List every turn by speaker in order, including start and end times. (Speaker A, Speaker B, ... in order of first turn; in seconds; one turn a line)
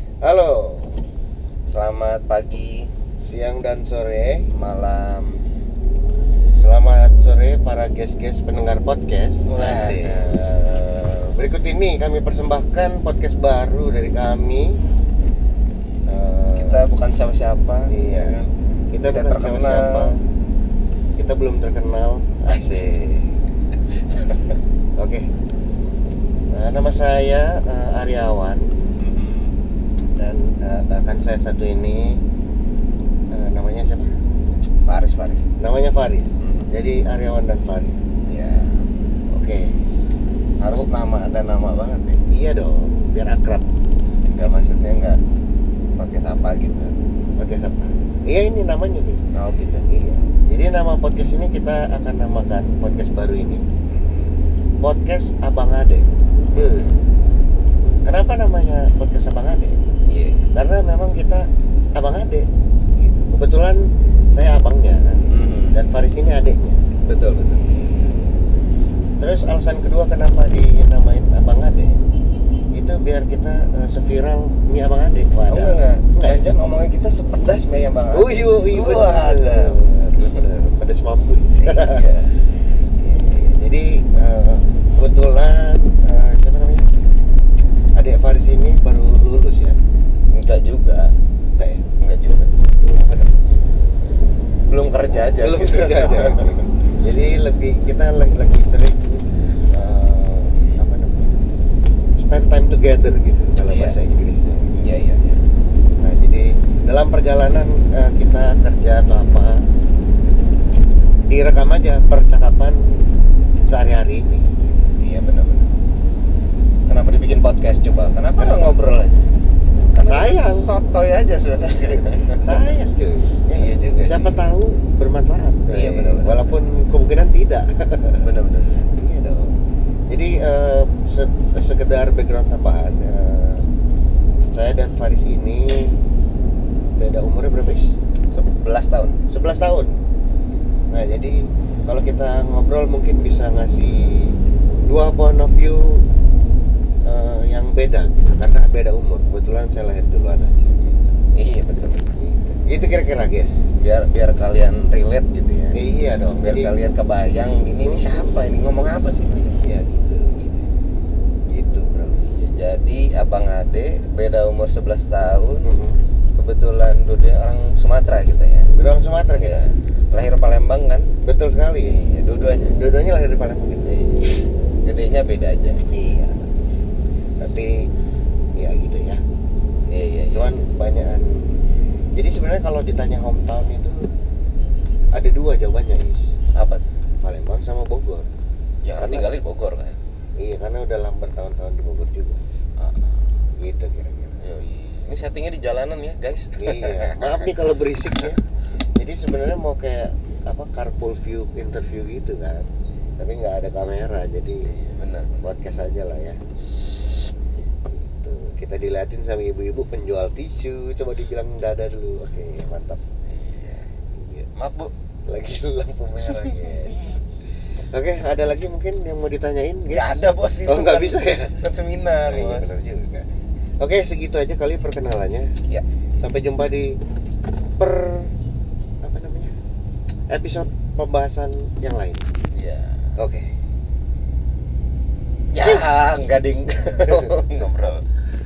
Speaker A: 0.2-1.0
Speaker B: 1.7-2.9
Speaker A: 3.2-4.5
Speaker B: 4.5-5.4
Speaker A: 6.6-10.4
Speaker B: 9.5-11.5
Speaker A: 11.3-14.8
Speaker A: 16.1-16.8
Speaker B: 16.5-18.5
Speaker A: 17.9-18.3
Speaker A: 18.9-20.2
Speaker B: 19.0-20.1
Speaker A: 21.2-23.3
Speaker B: 22.5-22.9
Speaker B: 24.1-24.5
Speaker A: 25.0-25.3
Speaker A: 26.5-28.7
Speaker B: 29.0-29.5
Speaker A: 30.2-32.2
Speaker A: 33.3-34.1
Speaker B: 34.8-35.4
Speaker A: 35.6-38.0
Speaker B: 36.4-36.7
Speaker B: 38.3-38.8
Speaker A: 39.3-39.7
Speaker B: 40.6-42.2
Speaker A: 42.3-43.7
Speaker A: 44.3-44.6
Speaker B: 44.3-45.2
Speaker B: 46.0-47.0
Speaker A: 47.4-49.2
Speaker B: 49.3-49.8
Speaker A: 49.9-53.6
Speaker B: 53.9-54.4
Speaker A: 54.8-57.0
Speaker B: 56.5-57.0
Speaker A: 58.0-59.8
Speaker B: 60.1-60.4
Speaker A: 60.5-62.5
Speaker A: 63.0-65.2
Speaker B: 65.3-65.8
Speaker A: 65.7-66.8
Speaker B: 67.0-67.7
Speaker A: 67.7-68.1
Speaker A: 69.2-72.0
Speaker A: 72.7-76.4
Speaker B: 75.5-80.4
Speaker A: 78.1-82.0
Speaker B: 81.6-82.3
Speaker A: 83.0-86.9
Speaker A: 88.0-89.8
Speaker B: 90.3-91.1
Speaker A: 91.5-91.9
Speaker B: 92.0-92.5
Speaker A: 92.9-93.3
Speaker B: 94.7-96.7
Speaker A: 95.4-101.3
Speaker A: 102.2-104.9
Speaker B: 103.6-104.0
Speaker B: 104.8-105.4
Speaker A: 106.0-109.6
Speaker A: 111.2-113.0
Speaker A: 113.7-114.9
Speaker B: 115.0-115.7
Speaker B: 116.9-119.3
Speaker A: 118.4-118.8
Speaker B: 119.9-122.7
Speaker A: 120.0-120.7
Speaker A: 122.3-128.2
Speaker B: 123.5-124.3
Speaker B: 125.7-126.6
Speaker B: 128.2-128.9
Speaker A: 128.9-129.6
Speaker A: 130.1-133.7
Speaker A: 134.5-136.0
Speaker A: 136.9-137.9
Speaker B: 138.3-139.2
Speaker A: 139.3-140.0
Speaker A: 140.9-146.1
Speaker A: 147.0-151.1
Speaker B: 151.3-152.0
Speaker A: 152.2-153.7
Speaker B: 153.8-155.8
Speaker A: 155.7-156.7
Speaker B: 156.3-159.6
Speaker A: 159.4-160.6
Speaker A: 161.5-162.2
Speaker B: 162.2-165.7
Speaker A: 165.6-166.0
Speaker B: 166.3-168.7
Speaker A: 168.7-169.6
Speaker B: 169.3-171.1
Speaker A: 171.2-172.0
Speaker B: 171.8-172.8
Speaker A: 172.7-173.9
Speaker B: 173.8-175.8
Speaker A: 175.9-176.4
Speaker A: 177.4-177.7
Speaker A: 178.6-179.2
Speaker B: 179.9-180.6
Speaker A: 180.3-181.6
Speaker A: 182.1-184.1
Speaker A: 185.1-186.3
Speaker B: 186.5-186.9
Speaker A: 187.2-188.3
Speaker B: 188.8-190.0
Speaker A: 188.9-189.4
Speaker A: 190.4-192.4
Speaker B: 192.8-193.2
Speaker A: 193.6-194.4
Speaker B: 194.4-198.3
Speaker A: 196.5-202.7
Speaker A: 203.2-204.7
Speaker B: 204.7-205.4
Speaker A: 205.4-206.4
Speaker A: 207.9-213.0
Speaker B: 213.3-213.9
Speaker A: 214.1-214.5
Speaker B: 214.6-214.9
Speaker A: 215.3-217.2
Speaker B: 216.2-216.9
Speaker A: 217.9-221.6
Speaker B: 219.9-222.8
Speaker A: 222.2-223.2
Speaker A: 223.8-225.5
Speaker A: 226.2-227.0
Speaker A: 227.8-228.3
Speaker A: 229.0-229.5
Speaker A: 230.3-232.3
Speaker B: 232.5-233.1
Speaker A: 233.2-233.5
Speaker B: 235.5-238.1
Speaker A: 237.1-237.6